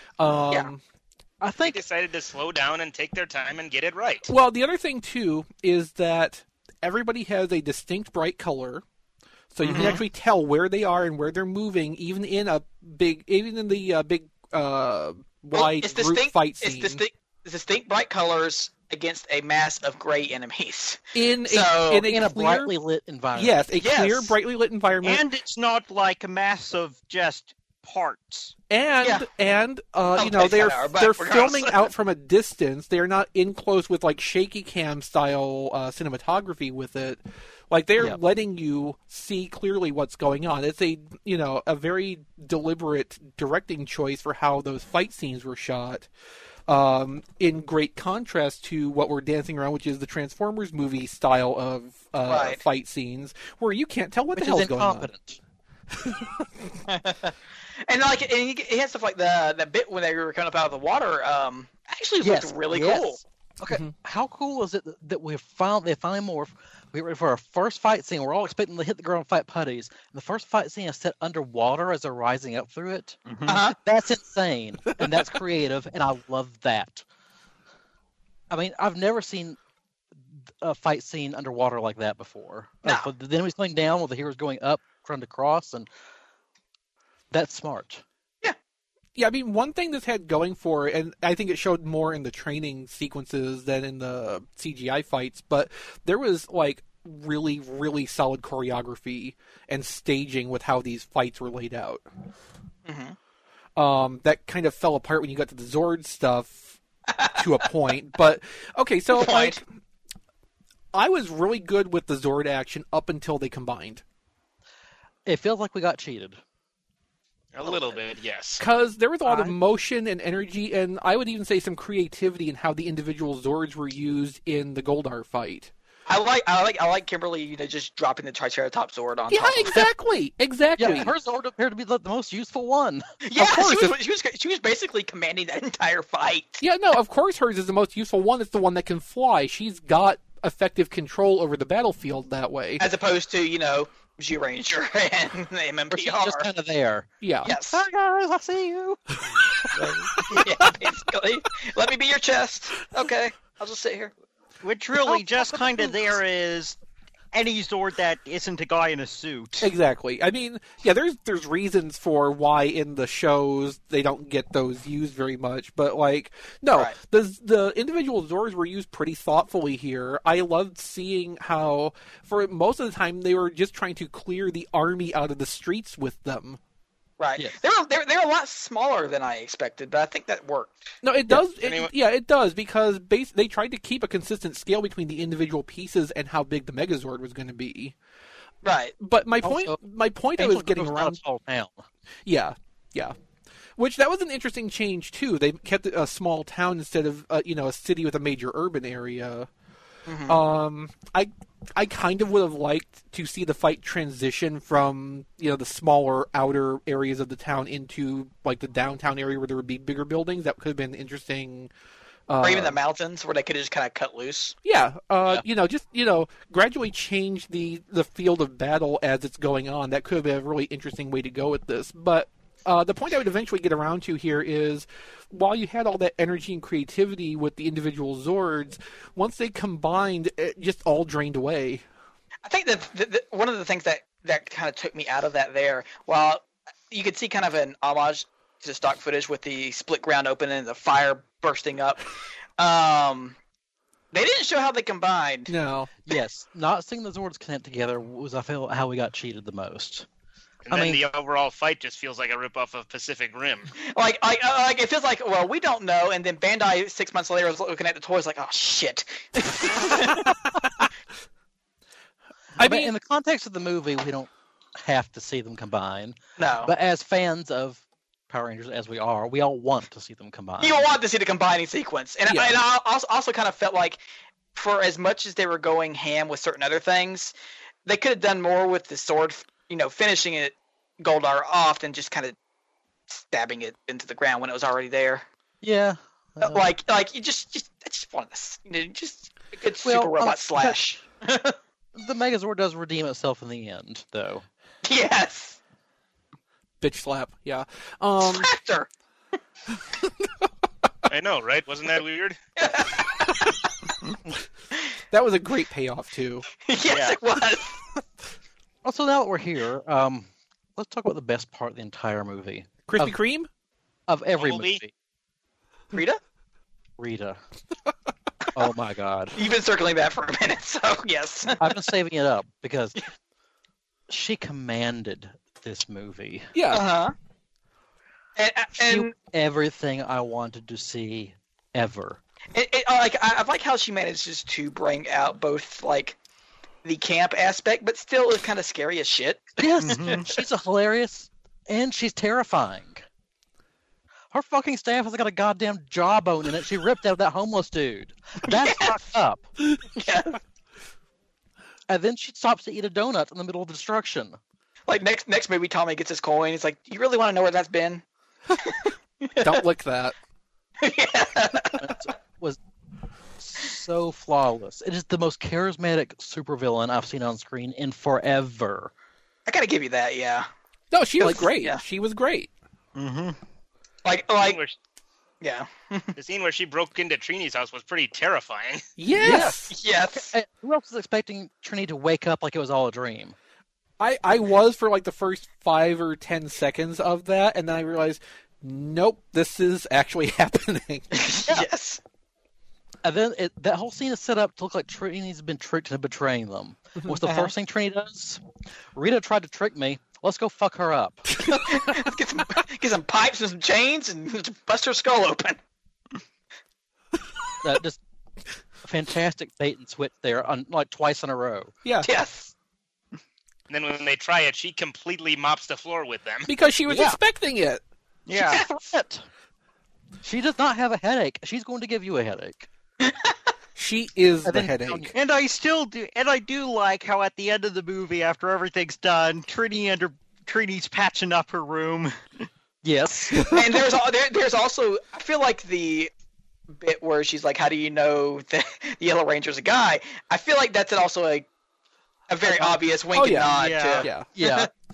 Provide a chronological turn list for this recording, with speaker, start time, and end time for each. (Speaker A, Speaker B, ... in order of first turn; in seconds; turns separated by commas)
Speaker A: 0.2-0.8, Speaker B: 1.4-1.8, Speaker C: 1.6-4.3, Speaker A: 4.3-8.8, Speaker A: 9.5-17.0, Speaker D: 9.6-10.0, Speaker E: 9.7-10.0, Speaker E: 15.5-22.1, Speaker A: 21.1-22.7, Speaker B: 21.9-23.6, Speaker A: 23.3-25.2, Speaker E: 23.8-24.3, Speaker D: 25.0-28.5, Speaker A: 28.7-46.1, Speaker E: 30.1-31.9, Speaker A: 46.7-55.1, Speaker E: 52.3-52.6, Speaker B: 54.4-55.4, Speaker A: 56.0-56.4, Speaker E: 56.9-57.3, Speaker E: 57.9-63.2, Speaker B: 62.2-73.2, Speaker D: 73.2-73.6, Speaker E: 73.5-73.8, Speaker B: 73.8-77.0, Speaker B: 78.5-79.6, Speaker B: 80.3-85.9, Speaker B: 87.3-88.0, Speaker A: 89.2-102.0, Speaker E: 102.8-103.2, Speaker A: 103.8-106.7, Speaker E: 107.1-107.4, Speaker A: 107.3-109.6, Speaker E: 109.1-109.6, Speaker A: 110.9-114.0, Speaker B: 115.2-116.4, Speaker C: 117.5-118.6, Speaker A: 118.6-125.7, Speaker B: 119.2-119.5, Speaker E: 126.1-129.8, Speaker A: 129.3-131.1, Speaker B: 130.8-133.1, Speaker E: 133.2-136.6, Speaker A: 133.4-134.0, Speaker A: 136.6-142.8, Speaker E: 142.8-146.5, Speaker B: 145.9-149.0, Speaker A: 147.2-147.5, Speaker E: 147.4-147.8, Speaker B: 149.7-150.1, Speaker E: 150.3-154.1, Speaker D: 154.6-156.8, Speaker B: 155.0-156.2, Speaker D: 157.3-159.7, Speaker A: 159.6-176.6, Speaker E: 177.2-180.9, Speaker A: 181.0-187.9, Speaker C: 181.6-181.9, Speaker E: 188.6-188.9, Speaker A: 189.0-191.2, Speaker B: 189.4-189.8, Speaker B: 190.4-191.8, Speaker A: 192.2-193.1, Speaker A: 193.8-199.5, Speaker E: 200.1-200.4, Speaker A: 200.2-211.7, Speaker A: 212.3-212.8, Speaker E: 212.4-214.6, Speaker A: 214.6-231.8, Speaker E: 232.4-243.4, Speaker E: 244.1-245.5, Speaker A: 245.5-245.9, Speaker B: 246.1-250.1, Speaker C: 250.7-253.7, Speaker B: 250.7-251.0, Speaker E: 253.8-260.4, Speaker A: 260.6-260.9, Speaker A: 262.6-262.9, Speaker B: 262.6-270.9, Speaker E: 266.4-266.7, Speaker E: 270.6-274.0, Speaker A: 272.3-272.6, Speaker E: 274.5-277.3, Speaker E: 277.9-282.4, Speaker E: 283.1-285.2, Speaker B: 285.6-286.6, Speaker E: 286.4-291.6, Speaker B: 289.8-290.8, Speaker B: 291.9-294.4, Speaker E: 294.8-295.6, Speaker A: 296.8-298.5, Speaker E: 298.2-298.9, Speaker C: 301.1-302.4, Speaker E: 302.6-303.5, Speaker A: 305.1-306.4, Speaker E: 306.6-307.8, Speaker B: 308.8-313.2, Speaker A: 312.9-313.5, Speaker B: 314.1-314.9, Speaker C: 314.4-314.8, Speaker E: 315.9-316.2, Speaker B: 317.0-317.4, Speaker B: 318.5-319.4, Speaker E: 319.4-321.8, Speaker B: 321.6-323.0, Speaker B: 324.1-326.5, Speaker A: 326.5-326.8, Speaker E: 326.7-327.1, Speaker E: 328.4-329.1, Speaker B: 328.8-332.2, Speaker E: 332.5-336.2, Speaker E: 336.8-340.4, Speaker B: 339.6-343.0, Speaker D: 339.8-340.3, Speaker B: 344.3-349.4, Speaker E: 348.5-349.0, Speaker E: 349.9-350.4, Speaker B: 351.9-354.4, Speaker E: 354.9-359.6, Speaker A: 359.4-360.1, Speaker E: 360.8-361.9, Speaker B: 361.8-362.6, Speaker B: 363.4-368.9, Speaker E: 369.4-370.5, Speaker A: 370.9-372.5, Speaker E: 371.2-371.8, Speaker D: 372.9-373.4, Speaker E: 374.0-374.6, Speaker C: 374.4-374.8, Speaker E: 375.4-376.1, Speaker C: 376.2-378.9, Speaker A: 379.0-379.8, Speaker B: 379.2-379.6, Speaker E: 379.3-380.3, Speaker B: 380.1-383.4, Speaker A: 384.0-391.3, Speaker E: 391.1-392.0, Speaker B: 393.0-398.4, Speaker E: 397.2-397.5, Speaker B: 398.9-401.3, Speaker E: 401.4-405.6, Speaker B: 407.6-408.0, Speaker B: 408.8-411.7, Speaker A: 411.8-412.1, Speaker E: 412.0-412.5, Speaker C: 413.7-416.5, Speaker A: 416.5-417.8, Speaker B: 416.9-417.2, Speaker D: 418.3-418.6, Speaker B: 418.3-419.2, Speaker B: 420.2-422.7, Speaker E: 423.0-423.3, Speaker A: 423.8-425.1, Speaker B: 424.4-425.1, Speaker D: 425.1-432.1, Speaker B: 432.8-433.6, Speaker E: 433.5-436.1, Speaker E: 436.7-441.5, Speaker E: 442.3-444.7, Speaker A: 442.4-444.3, Speaker D: 443.5-444.1, Speaker B: 444.3-444.7